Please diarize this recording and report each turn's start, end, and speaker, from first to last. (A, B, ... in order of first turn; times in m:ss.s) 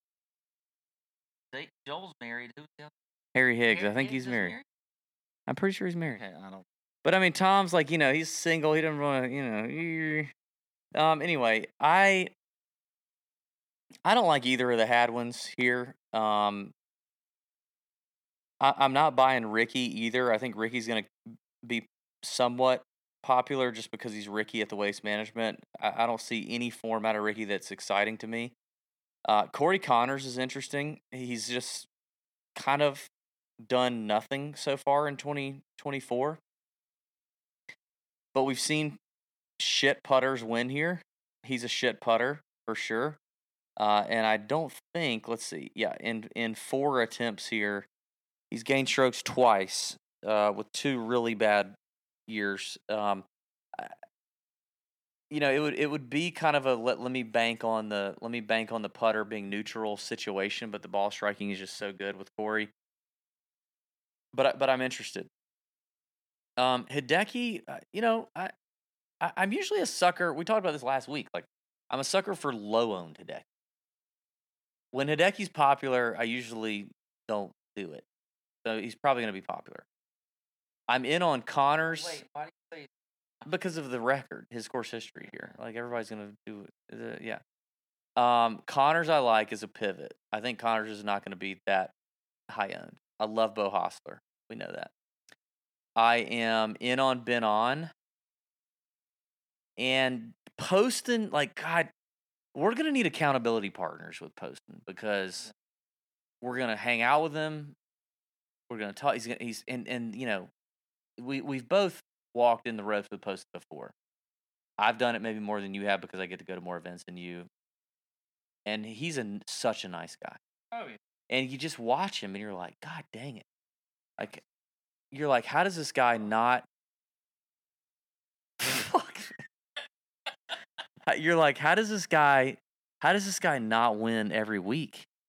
0:01.5-0:02.9 A
0:03.3-0:04.5 B
0:03.7-0:04.6 A
0:05.5-0:06.2 B
0:06.1-0:06.6 A
0:07.0-0:10.3 B
0:10.9-0:12.3 B
0:14.0-0:16.7 B
0:18.6-0:28.5 B
0:29.2-0:31.9 B
0:32.5-0:33.1 B
0:33.6-0:36.4 B
0:38.3-0:39.0 B
0:39.6-0:43.2 B
0:43.8-0:47.9 B
0:48.5-0:51.7 B
0:52.3-0:54.0 B
0:55.3-1:02.7 B
1:04.3-1:05.3 B
1:06.6-1:08.5 B
1:09.2-1:13.4 B
1:14.9-1:18.0 B
1:18.6-1:19.8 B
1:20.9-1:22.2 B
1:21.8-1:22.9 A
1:23.5-1:27.4 B
1:25.2-1:25.6 A
1:28.2-1:31.9 B
1:32.5-1:34.9 B
1:36.0-1:37.9 B
1:39.8-1:41.9 B
1:42.5-1:45.5 B
1:46.4-1:47.8 B
1:48.7-1:50.5 B
1:51.2-1:53.9 B
1:54.8-1:57.5 B
1:58.6-2:00.4 B
2:00.7-2:01.0 A
2:01.3-2:03.4 B
2:05.1-2:06.7 B
2:08.6-2:09.4 B
2:11.0-2:15.1 B